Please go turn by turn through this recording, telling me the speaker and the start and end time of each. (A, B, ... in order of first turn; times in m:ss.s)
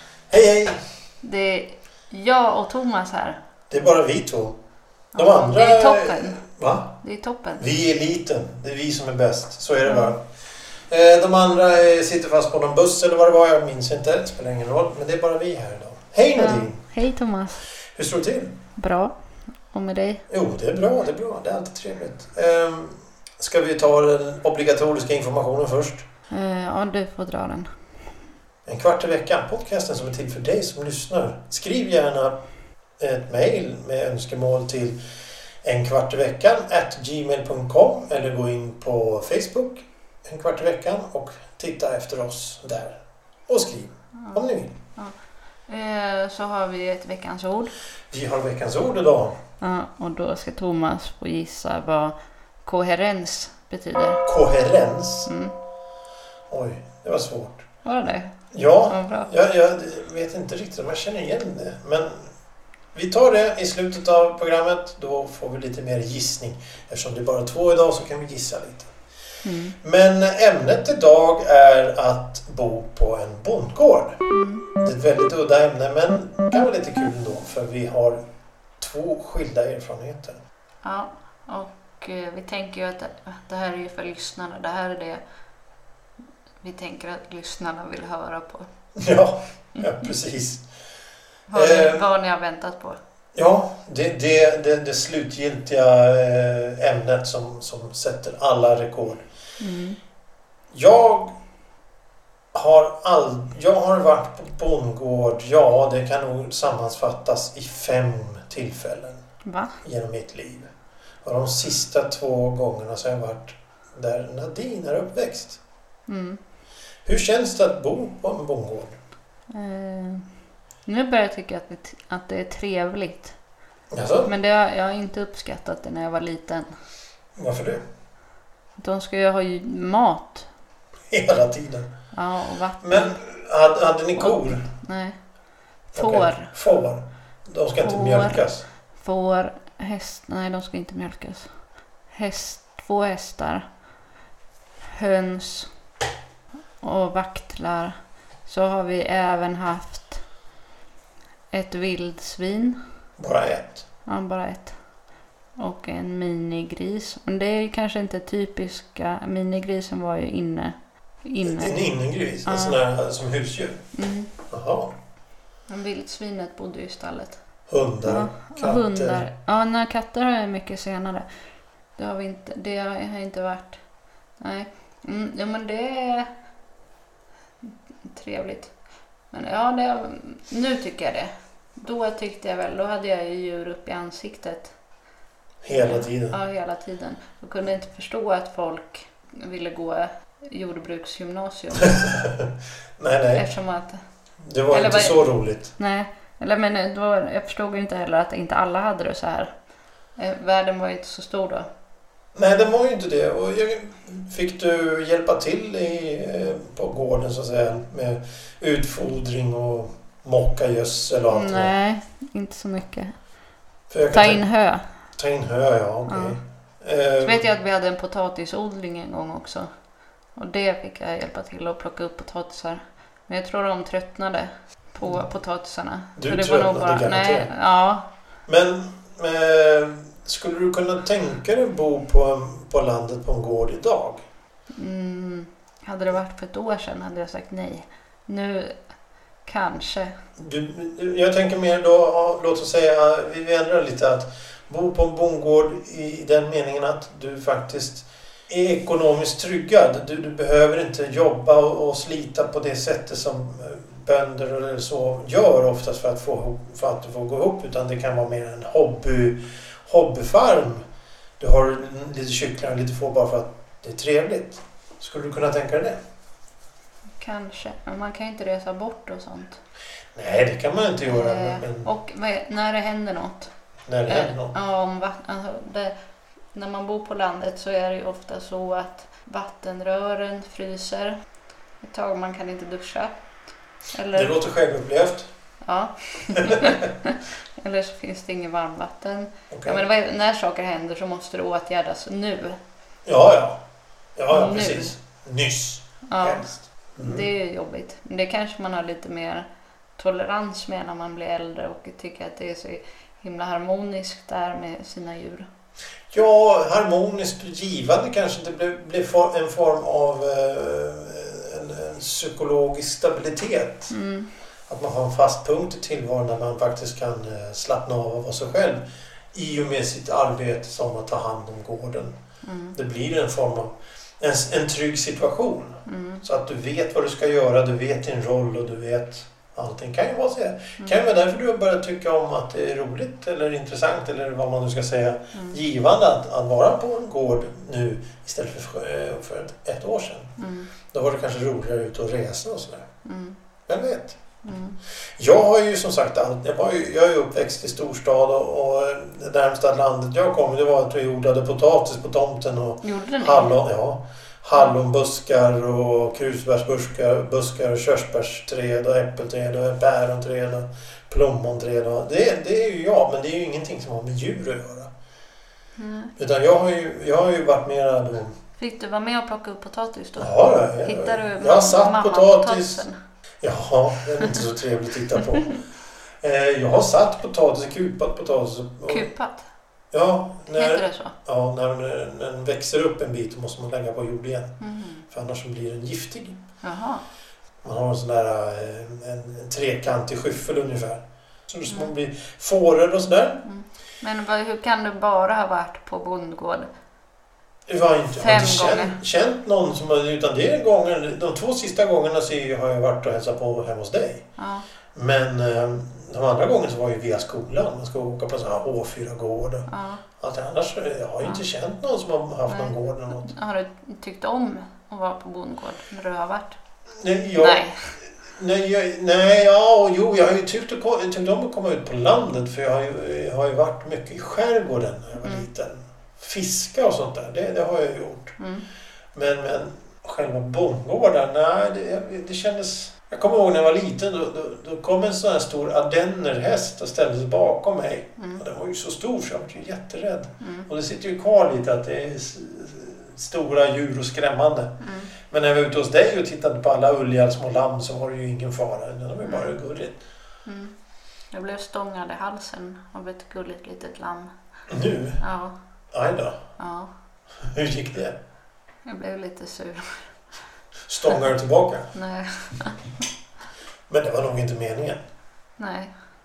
0:00.3-0:00.8 A
0:01.2-0:03.4 B
0:03.7-0:04.6 A
0:05.1-0:06.4 B
0:05.2-0:07.0 A
0:07.0-0:07.6 B
0:07.6-0:10.2 A
0:09.8-0:10.1 B
0:10.9-0:16.8 A
0:16.4-0:17.6 B
0:18.0-0:18.6 A
0:18.8-0:19.1 B
0:19.7-0:20.2 B
0:20.3-0:26.0 A
0:26.3-0:27.7 B
0:28.6-0:32.4 A
0:33.0-0:35.0 A
0:35.6-0:44.7 A
0:44.2-0:45.1 B
0:45.7-0:47.7 B
0:48.1-0:49.4 A
0:49.6-0:54.2 B
0:54.2-0:55.3 A
0:55.2-0:55.6 B
0:56.5-0:57.7 A
0:57.8-0:58.3 B
0:58.5-1:02.3 A
0:58.9-0:59.3 B
1:02.9-1:08.9 A
1:09.4-1:09.8 B
1:09.8-1:14.2 A
1:14.3-1:14.7 B
1:14.8-1:18.2 A
1:18.8-1:20.4 A
1:20.8-1:25.2 B
1:26.6-1:28.7 B
1:29.0-1:30.6 A
1:31.5-1:33.0 B
1:31.5-1:32.0 A
1:33.3-1:39.2 A
1:39.6-1:40.0 B
1:40.7-1:41.3 A
1:42.5-1:49.2 A
1:49.4-1:49.8 B
1:49.8-1:50.7 A
1:51.2-1:55.6 A
1:56.1-1:56.4 B
1:57.0-1:58.9 A
1:59.5-2:00.3 B
2:00.9-2:03.3 B
2:03.9-2:04.3 A
2:04.2-2:06.7 B
2:07.4-2:07.8 A
2:08.8-2:10.5 B
2:11.1-2:11.9 A
2:12.1-2:13.2 B
2:12.8-2:14.7 A
2:14.2-2:15.2 B
2:15.9-2:16.5 B
2:15.9-2:18.6 A
2:17.8-2:18.4 B
2:19.0-2:21.5 B
2:22.1-2:23.7 B
2:24.9-2:25.7 B
2:26.8-2:30.2 B
2:31.5-2:32.8 B
2:33.2-2:33.8 A
2:34.1-2:34.8 B
2:35.6-2:41.8 B
2:41.4-2:43.8 A
2:42.4-2:42.8 B
2:43.9-2:44.3 B
2:44.5-2:44.9 A
2:45.7-2:47.4 B
2:47.7-2:49.3 A
2:48.0-2:51.2 B
2:52.0-2:53.8 B
2:54.4-2:56.3 B
2:58.1-2:58.7 B
2:59.3-3:04.7 B
3:05.6-3:06.4 A
3:05.7-3:12.2 B
3:13.0-3:13.5 A
3:13.3-3:14.0 B
3:14.4-3:15.7 A
3:14.7-3:15.2 B
3:15.8-3:19.5 B
3:20.2-3:21.7 B
3:22.3-3:31.7 A
3:31.3-3:33.2 B
3:33.9-3:34.4 A
3:34.1-3:34.8 B
3:35.2-3:37.4 A
3:36.1-3:36.4 B
3:37.2-3:39.7 B
3:40.3-3:48.1 B
3:46.2-3:47.5 A
3:48.5-3:54.2 A
3:54.8-3:58.8 B
3:59.4-4:00.1 B
4:00.4-4:20.8 A
4:21.4-4:26.0 A
4:27.2-4:29.6 B
4:30.1-4:31.9 A
4:31.0-4:33.5 B
4:33.9-4:34.5 A
4:34.1-4:35.9 B
4:36.5-4:41.2 B
4:41.8-4:43.2 B
4:43.9-4:44.3 B
4:44.1-4:45.3 A
4:45.6-4:52.6 B
4:49.5-4:49.8 A
4:53.1-4:53.6 A
4:54.2-4:57.3 A
4:54.3-4:54.9 B
4:56.1-5:05.5 B
5:06.1-5:13.9 A
5:13.9-5:14.3 B
5:14.7-5:18.8 A
5:19.3-5:22.1 A
5:22.4-5:22.8 B
5:22.7-5:40.4 A
5:25.9-5:26.2 B
5:40.4-5:40.7 B
5:40.9-5:42.8 A
5:43.0-5:43.4 B
5:43.7-5:44.2 A
5:44.4-5:44.8 B
5:45.2-6:04.9 A
5:52.8-5:53.6 B
6:05.8-6:06.1 B
6:06.2-6:08.4 A
6:08.6-6:12.9 B
6:10.2-6:12.8 A
6:13.4-6:15.6 A
6:16.2-6:19.1 A
6:18.9-6:19.4 B
6:19.9-6:24.6 A
6:20.5-6:21.1 B
6:24.6-6:25.1 B
6:25.1-6:26.4 A
6:26.6-6:27.0 B
6:27.6-6:33.4 A
6:31.7-6:31.9 B
6:33.4-6:36.7 B
6:37.7-6:44.2 A
6:38.2-6:39.0 B
6:44.4-6:44.7 B
6:44.9-6:49.7 A
6:49.7-6:50.0 B
6:50.2-6:53.3 A
6:52.5-6:56.6 B
6:57.0-7:08.4 A
6:57.4-6:57.9 B
7:08.4-7:08.6 B
7:09.1-7:24.8 A
7:18.2-7:18.4 B
7:20.4-7:20.7 B
7:24.8-7:25.1 B
7:25.3-7:30.0 A
7:29.2-7:29.5 B
7:30.4-7:30.7 B
7:31.3-7:34.3 B
7:34.7-7:35.2 A
7:35.2-7:35.6 B
7:35.9-7:36.4 A
7:36.6-7:36.9 B
7:37.5-7:38.2 A
7:38.9-7:40.1 B
7:40.9-7:41.9 A
7:41.9-7:42.8 B
7:43.9-7:45.0 A
7:45.6-7:45.9 B